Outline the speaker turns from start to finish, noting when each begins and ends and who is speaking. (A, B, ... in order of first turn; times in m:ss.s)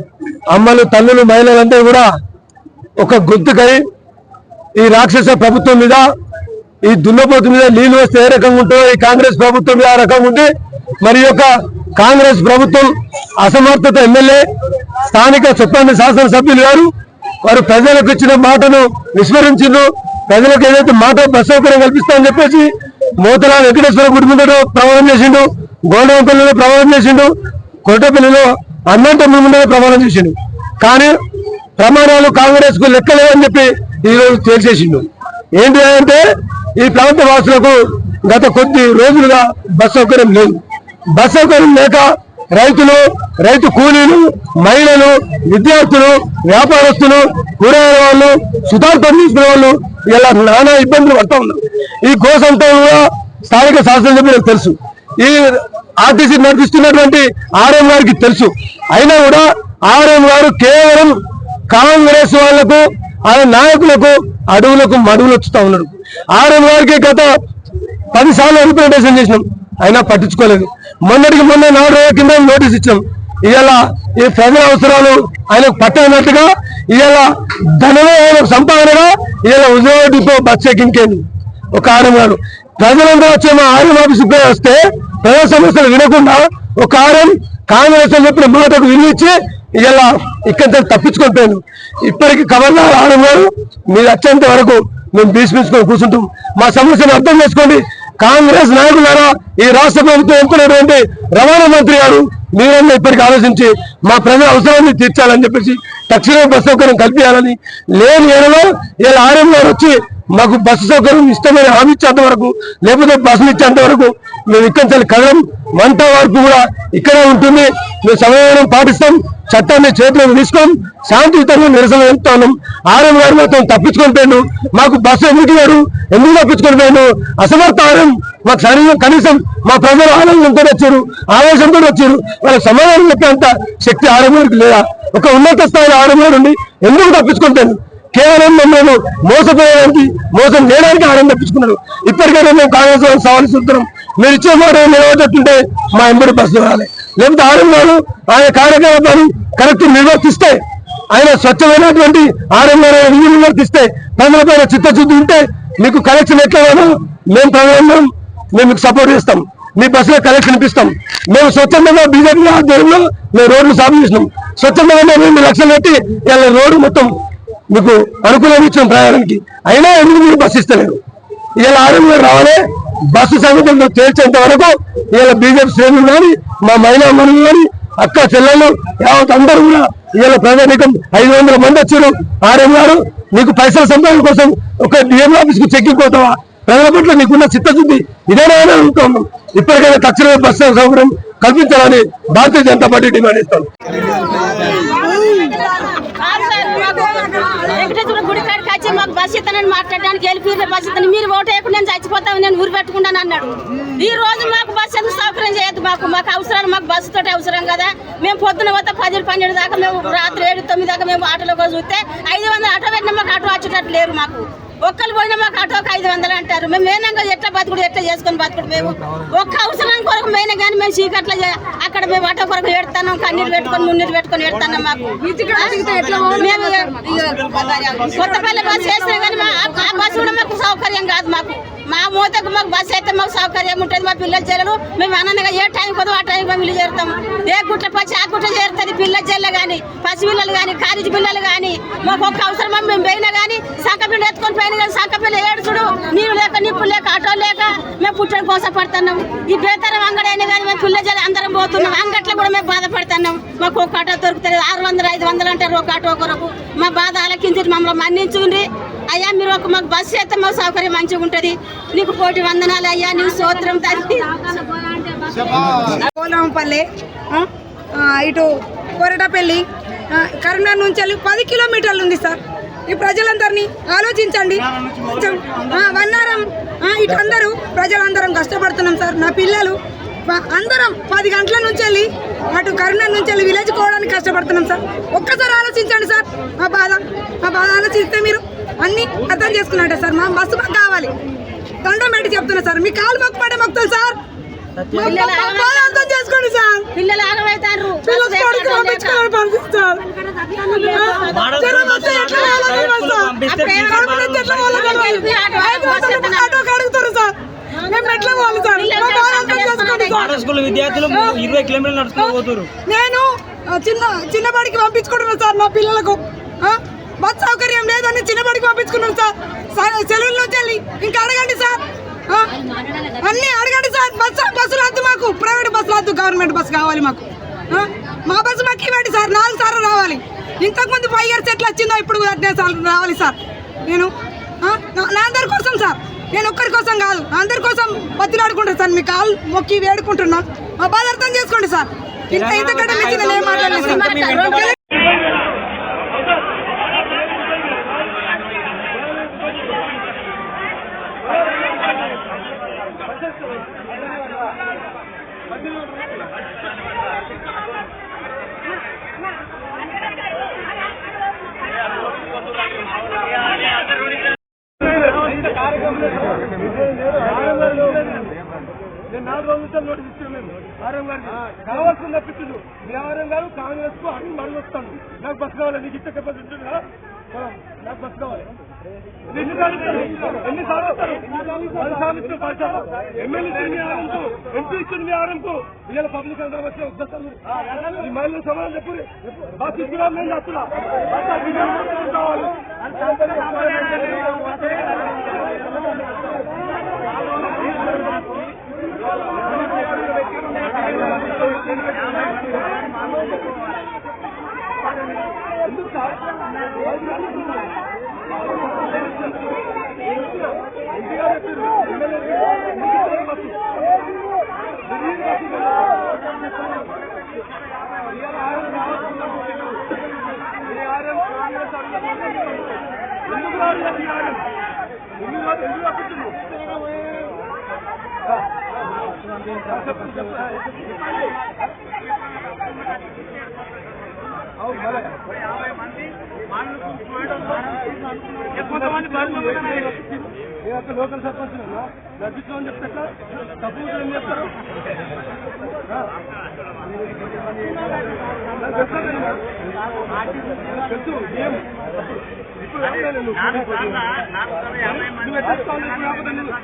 0:00.5-0:02.1 A
0:03.0-0:03.8 A
0:04.8-0:06.1 A
0:06.8-0:14.5 A
0:15.0-0:16.9 A
0:17.4-0:31.2 A
0:31.8-1:01.2 A
1:01.7-1:07.3 A
1:08.1-2:30.6 A
2:31.1-2:47.1 A
2:47.7-2:51.0 A
2:51.6-3:13.7 A
3:14.1-3:17.9 B
3:14.7-4:25.9 C
3:45.2-3:47.1 B
3:47.2-3:48.2 D
3:48.1-3:49.6 B
4:26.0-4:51.1 B
4:51.8-4:54.2 B
4:54.8-4:55.1 D
4:54.9-4:56.9 B
4:55.0-4:56.1 C
4:56.9-4:59.2 C
4:58.0-5:00.0 B
5:00.2-5:02.7 C
5:00.9-5:07.3 B
5:01.3-5:05.3 D
5:03.5-5:04.0 C
5:04.7-5:06.6 C
5:07.8-5:10.2 C
5:07.9-5:10.4 B
5:10.1-5:12.7 D
5:12.9-5:22.5 B
5:23.1-5:34.1 B
5:34.6-5:44.8 B
5:42.3-5:44.6 D
5:43.6-5:44.8 C
6:07.6-6:07.9 A
6:09.2-6:16.8 A
6:19.4-6:21.3 A
6:21.8-6:27.2 A
6:28.0-6:29.1 A
6:29.6-6:30.7 A
7:36.0-7:36.4 A